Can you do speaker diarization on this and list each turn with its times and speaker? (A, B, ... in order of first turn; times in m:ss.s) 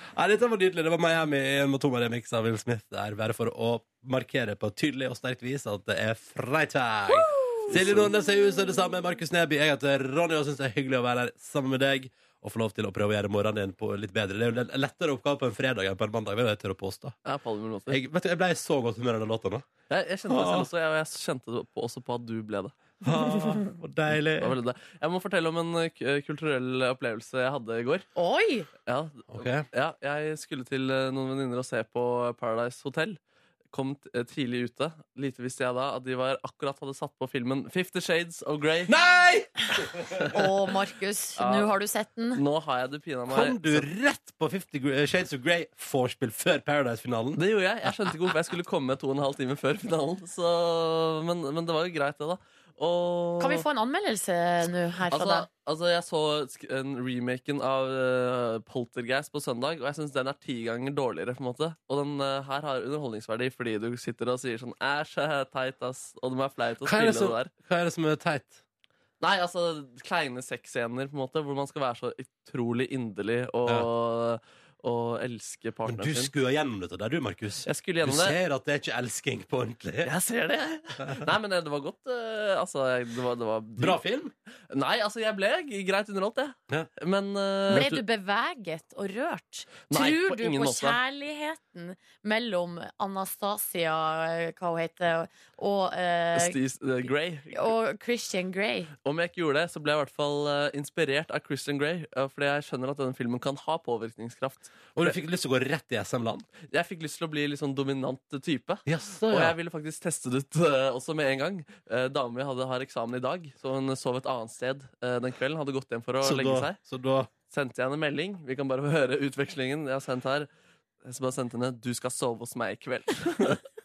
0:00.2-0:17.2 A
0:07.7-0:08.1 B
0:17.2-0:18.0 B
0:17.9-0:19.7 A
0:19.9-0:22.8 B
0:20.3-0:20.7 A
0:23.0-0:24.6 A
0:24.4-0:28.1 B
0:28.2-0:28.7 C
0:28.9-0:33.2 B
0:29.3-0:29.7 A
0:33.7-0:39.0 B
0:38.9-0:40.4 A
0:40.3-0:42.4 C
0:41.4-0:41.7 B
0:42.3-0:43.9 B
0:43.3-0:47.4 A
0:47.4-0:53.6 B
0:53.4-0:55.5 C
0:55.1-1:07.5 B
1:06.8-1:08.6 A
1:09.2-1:16.3 B
1:15.9-1:20.1 A
1:17.7-1:18.4 B
1:20.0-1:24.0 B
1:23.8-1:24.3 A
1:24.7-1:27.9 B
1:27.7-1:28.0 A
1:27.7-1:36.6 C
1:29.9-1:31.0 B
1:36.3-1:37.7 B
1:37.5-1:38.9 C
1:39.0-1:45.1 B
1:45.0-1:46.5 A
1:46.7-1:56.8 B
1:48.9-1:49.6 A
1:56.2-1:57.3 A
1:57.5-2:00.5 B
2:01.0-2:03.6 B